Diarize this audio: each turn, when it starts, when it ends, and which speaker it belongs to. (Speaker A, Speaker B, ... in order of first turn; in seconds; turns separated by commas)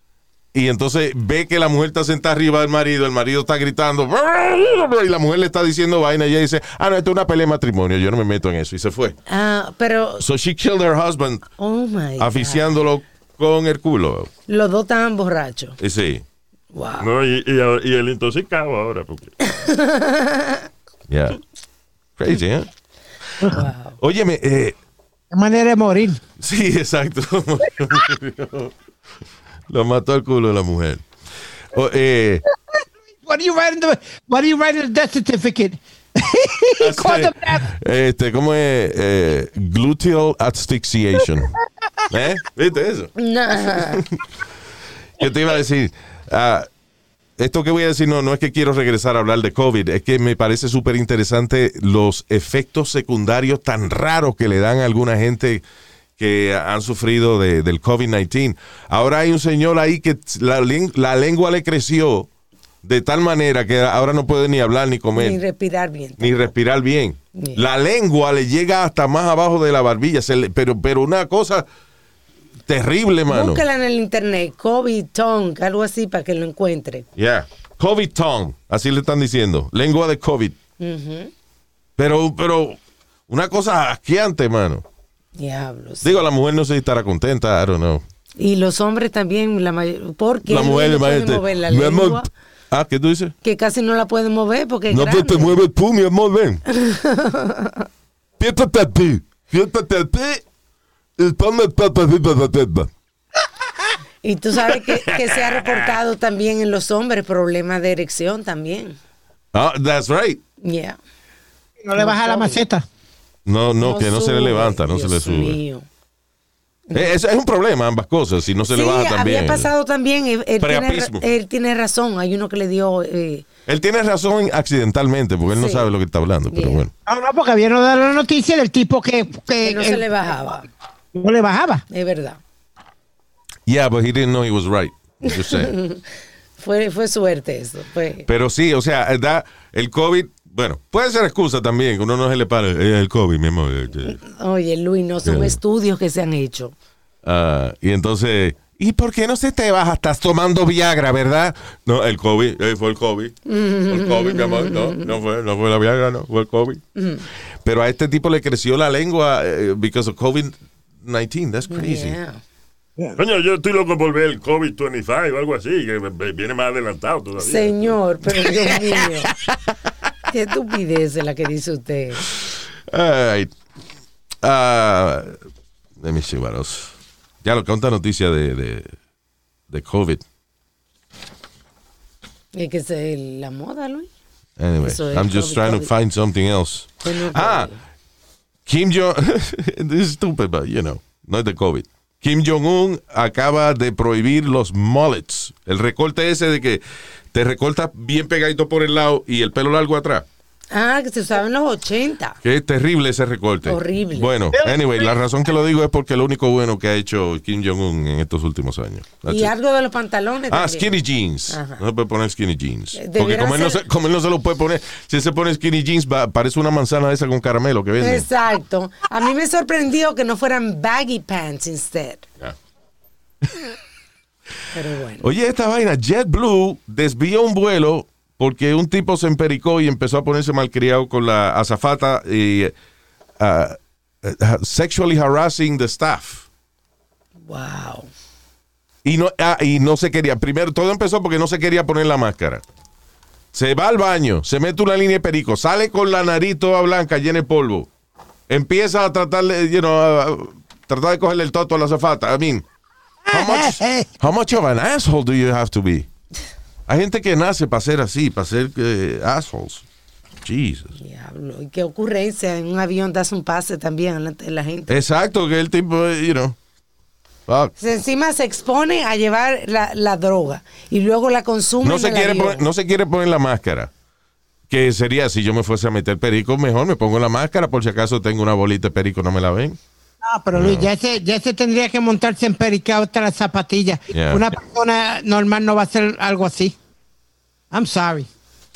Speaker A: 0.5-9.2, Speaker B: 9.3-10.2, Speaker A: 10.2-11.4, Speaker B: 11.6-12.7, Speaker A: 12.2-14.3, Speaker B: 14.5-15.8, Speaker A: 15.8-16.2, Speaker B: 16.7-17.1, Speaker C: 17.0-19.3, Speaker B: 19.4-20.6, Speaker A: 21.1-21.4, Speaker A: 22.2-22.7, Speaker B: 23.4-24.0, Speaker A: 24.0-24.8, Speaker D: 25.3-26.2, Speaker A: 26.4-28.7, Speaker A: 29.7-31.0, Speaker A: 31.7-32.4, Speaker D: 33.2-37.7, Speaker A: 36.8-41.5, Speaker A: 42.1-43.1, Speaker B: 43.2-44.0, Speaker A: 43.7-44.2, Speaker A: 45.2-46.7, Speaker A: 47.4-55.6, Speaker A: 56.2-62.3, Speaker A: 62.8-65.4, Speaker B: 65.1-66.5, Speaker A: 66.2-71.7, Speaker B: 67.4-67.6, Speaker A: 72.7-73.6, Speaker B: 73.3-77.1, Speaker A: 77.2-80.6, Speaker B: 80.8-81.3, Speaker A: 82.0-82.8, Speaker A: 83.3-84.8, Speaker B: 85.4-86.2, Speaker A: 86.0-88.0, Speaker B: 88.4-92.3, Speaker A: 90.5-93.3, Speaker B: 93.4-95.6, Speaker A: 94.9-96.6, Speaker B: 96.7-97.9, Speaker A: 98.4-100.4, Speaker A: 101.2-102.9, Speaker B: 104.2-109.0, Speaker A: 104.7-105.9, Speaker A: 109.5-110.4, Speaker B: 110.6-111.0, Speaker D: 111.8-112.8, Speaker B: 112.0-112.6, Speaker A: 113.5-115.6, Speaker B: 113.8-115.9, Speaker B: 116.9-117.1, Speaker A: 116.9-119.7, Speaker B: 118.6-123.4, Speaker A: 120.6-121.2, Speaker A: 123.7-126.9, Speaker B: 125.5-125.9, Speaker B: 126.5-126.8, Speaker D: 127.0-130.1, Speaker B: 129.6-130.7, Speaker D: 131.1-131.8, Speaker B: 131.9-132.4, Speaker A: 133.7-135.7, Speaker B: 135.2-136.0, Speaker B: 136.6-138.3, Speaker A: 138.3-144.2, Speaker B: 144.1-146.7, Speaker A: 145.2-145.6, Speaker A: 147.2-156.8, Speaker B: 153.4-155.1, Speaker B: 156.9-157.2, Speaker A: 157.6-162.2, Speaker B: 161.7-162.4, Speaker C: 163.2-167.9, Speaker B: 167.4-169.3, Speaker B: 170.3-172.2, Speaker A: 172.9-173.5, Speaker A: 174.4-175.4, Speaker A: 176.0-178.9, Speaker A: 179.7-180.2, Speaker B: 182.5-184.1, Speaker A: 184.6-187.7, Speaker B: 184.8-185.9, Speaker B: 187.0-187.8, Speaker A: 188.7-196.8, Speaker A: 197.3-200.2, Speaker B: 200.7-202.4, Speaker A: 202.4-209.5, Speaker B: 203.6-204.3, Speaker D: 204.6-205.0, Speaker B: 209.2-210.9, Speaker A: 210.5-218.3, Speaker B: 211.5-211.8, Speaker B: 212.9-213.8, Speaker B: 218.0-222.3, Speaker B: 224.7-225.3, Speaker A: 225.2-232.7, Speaker A: 233.4-236.4, Speaker B: 237.4-238.1, Speaker A: 239.0-242.6, Speaker A: 243.5-247.9, Speaker A: 248.5-252.6, Speaker D: 253.3-254.1, Speaker A: 253.3-256.1, Speaker A: 256.9-259.8, Speaker A: 260.4-260.9, Speaker B: 261.0-265.0, Speaker A: 264.9-266.6, Speaker A: 267.5-267.7, Speaker B: 267.8-272.6, Speaker A: 271.8-273.9, Speaker A: 274.7-279.8, Speaker D: 280.2-286.7, Speaker A: 280.5-280.9, Speaker A: 284.1-284.4, Speaker D: 287.7-288.3